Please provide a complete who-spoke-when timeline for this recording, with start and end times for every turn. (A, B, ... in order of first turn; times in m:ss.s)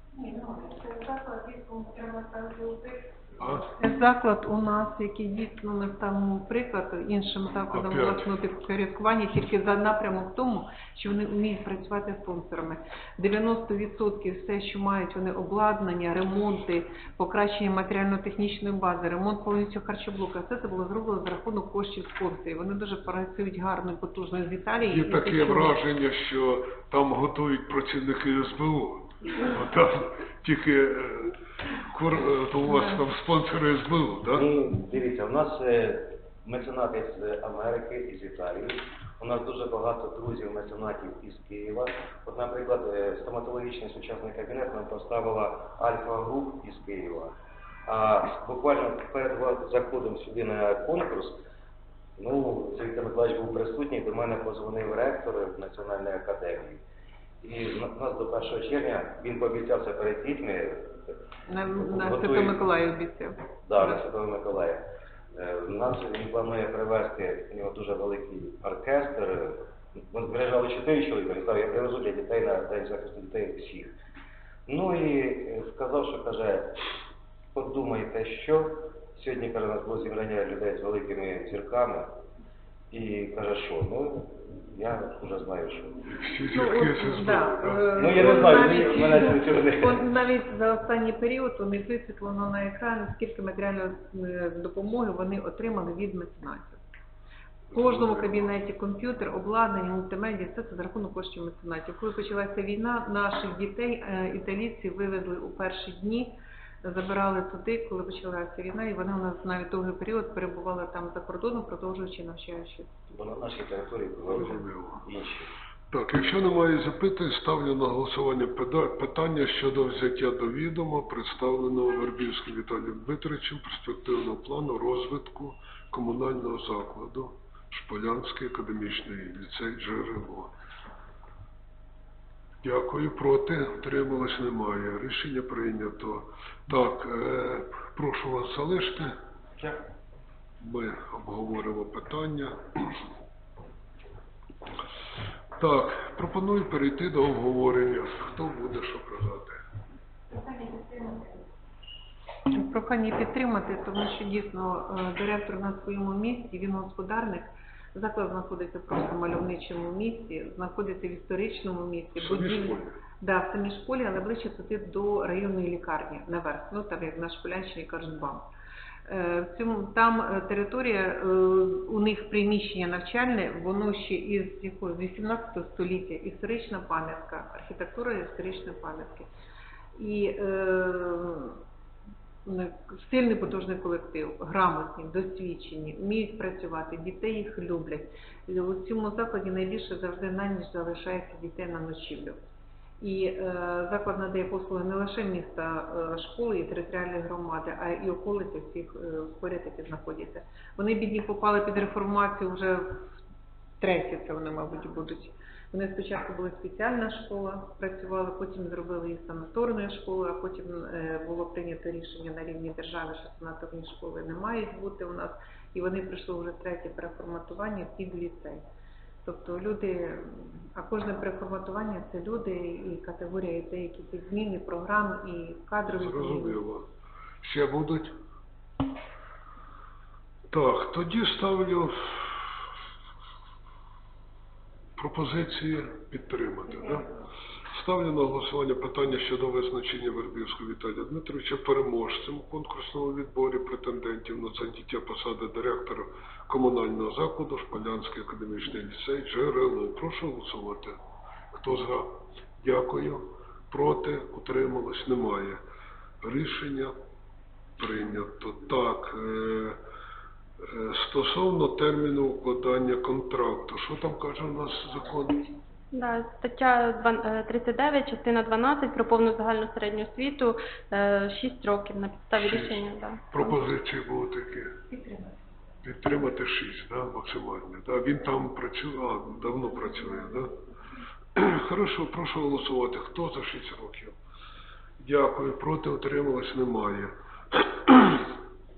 0:00.1-0:25.7 A
0:03.4-0:03.7 B
0:07.7-0:08.3 B
0:24.8-0:34.5 B
0:34.3-0:47.4 C
0:47.9-0:51.4 C
0:52.2-0:56.8 C
0:57.4-1:01.2 C
1:01.5-1:04.0 A
1:01.8-1:02.6 C
1:03.7-1:13.9 C
1:14.7-1:16.8 C
1:17.5-1:22.1 C
1:22.9-1:26.0 C
1:26.1-1:28.8 B
1:26.5-1:36.8 A
1:28.0-1:30.0 C
1:37.7-1:38.5 B
1:37.7-1:52.9 A
1:53.1-1:55.5 C
1:54.3-1:55.0 B
1:55.9-2:10.5 B
2:12.6-2:19.2 B
2:20.6-2:23.0 B
2:25.6-2:29.6 B
2:30.3-2:31.4 A
2:32.5-2:48.5 A
2:42.2-2:43.0 B
2:49.1-2:59.3 A
3:00.0-3:01.6 A
3:02.4-3:12.4 A
3:13.0-3:23.1 A
3:23.8-3:38.6 A
3:39.2-3:46.6 A
3:45.9-3:46.8 B
3:47.4-3:48.2 B
3:50.5-3:52.6 B
3:55.0-3:57.1 B
3:57.7-4:11.0 B
4:11.5-4:15.6 B
4:16.2-4:17.0 B
4:17.8-4:19.8 B
4:20.6-4:25.5 B
4:25.9-4:33.7 D
4:32.4-4:34.8 B
4:34.9-4:35.4 A
4:35.8-4:40.6 B
4:41.4-4:44.2 B
4:45.0-4:48.3 B